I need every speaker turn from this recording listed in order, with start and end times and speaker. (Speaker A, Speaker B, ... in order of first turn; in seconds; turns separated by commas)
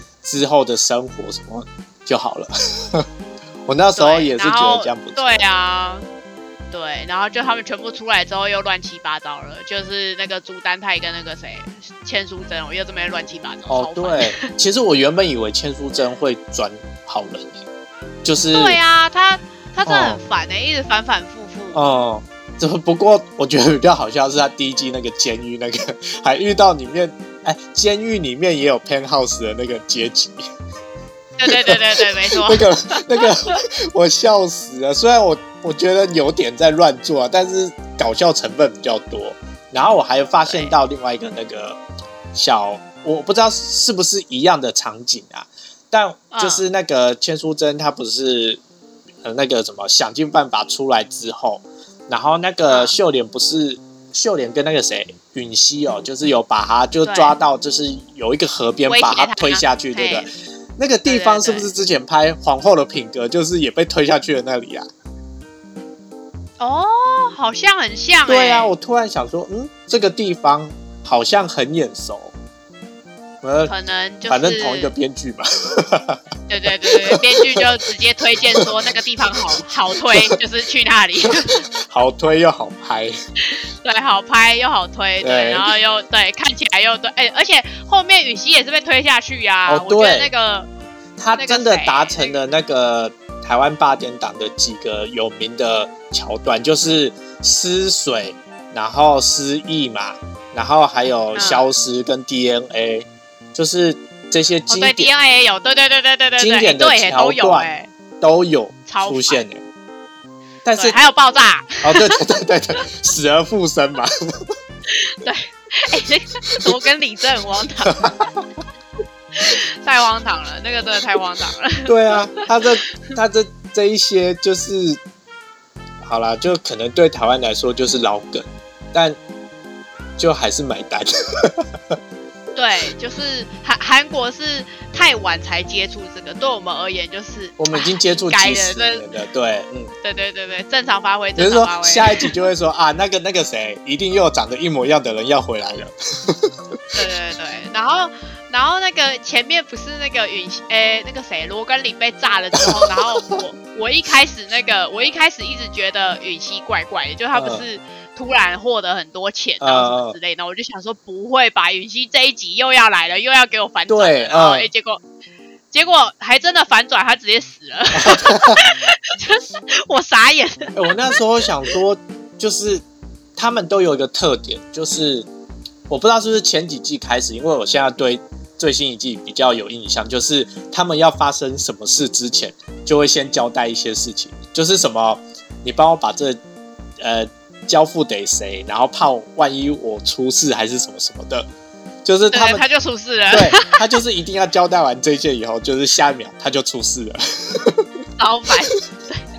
Speaker A: 0.2-3.0, Speaker A: 3.7-5.4, Speaker B: 4.0-6.0, Speaker B: 6.7-14.5, Speaker A: 13.7-17.6, Speaker A: 18.2-18.8, Speaker B: 18.5-21.8, Speaker A: 19.8-20.2, Speaker A: 21.7-30.4, Speaker B: 31.4-33.6, Speaker A: 31.4-41.8, Speaker B: 40.4-40.7, Speaker A: 42.3-48.6, Speaker B: 46.3-46.6, Speaker A: 49.2-64.9, Speaker B: 52.7-52.9, Speaker B: 57.0-57.3, Speaker B: 58.9-60.3, Speaker B: 61.0-61.7, Speaker B: 66.6-68.7, Speaker A: 68.3-72.3, Speaker A: 73.4-73.7, Speaker B: 73.7-74.9, Speaker A: 74.3-76.2, Speaker B: 76.5-81.7, Speaker A: 76.9-77.6, Speaker A: 81.8-83.1, Speaker B: 83.5-90.7, Speaker A: 85.2-85.7, Speaker A: 89.7-90.3, Speaker A: 91.2-105.1, Speaker B: 91.4-92.4, Speaker B: 101.3-101.7, Speaker B: 104.7-107.9, Speaker A: 106.4-107.7, Speaker A: 108.2-109.6, Speaker B: 108.9-109.4, Speaker A: 110.6-111.0, Speaker B: 110.7-112.1, Speaker A: 111.8-114.5, Speaker B: 114.9-118.3, Speaker A: 117.9-118.4, Speaker B: 119.3-122.4, Speaker A: 121.8-125.0, Speaker A: 126.0-129.2, Speaker A: 130.2-131.9, Speaker B: 132.5-139.0, Speaker A: 137.6-139.9, Speaker B: 140.0-142.3, Speaker A: 141.4-146.5, Speaker B: 146.9-165.0, Speaker A: 152.6-152.9, Speaker A: 157.3-157.7, Speaker A: 159.6-160.2, Speaker A: 163.9-164.7, Speaker B: 165.7-171.2, Speaker A: 168.0-168.6, Speaker A: 170.8-172.8, Speaker A: 173.4-175.3, Speaker A: 175.9-186.4, Speaker A: 187.0-191.5, Speaker A: 192.0-192.6, Speaker B: 192.3-193.8, Speaker A: 193.3-197.8, Speaker B: 198.2-199.2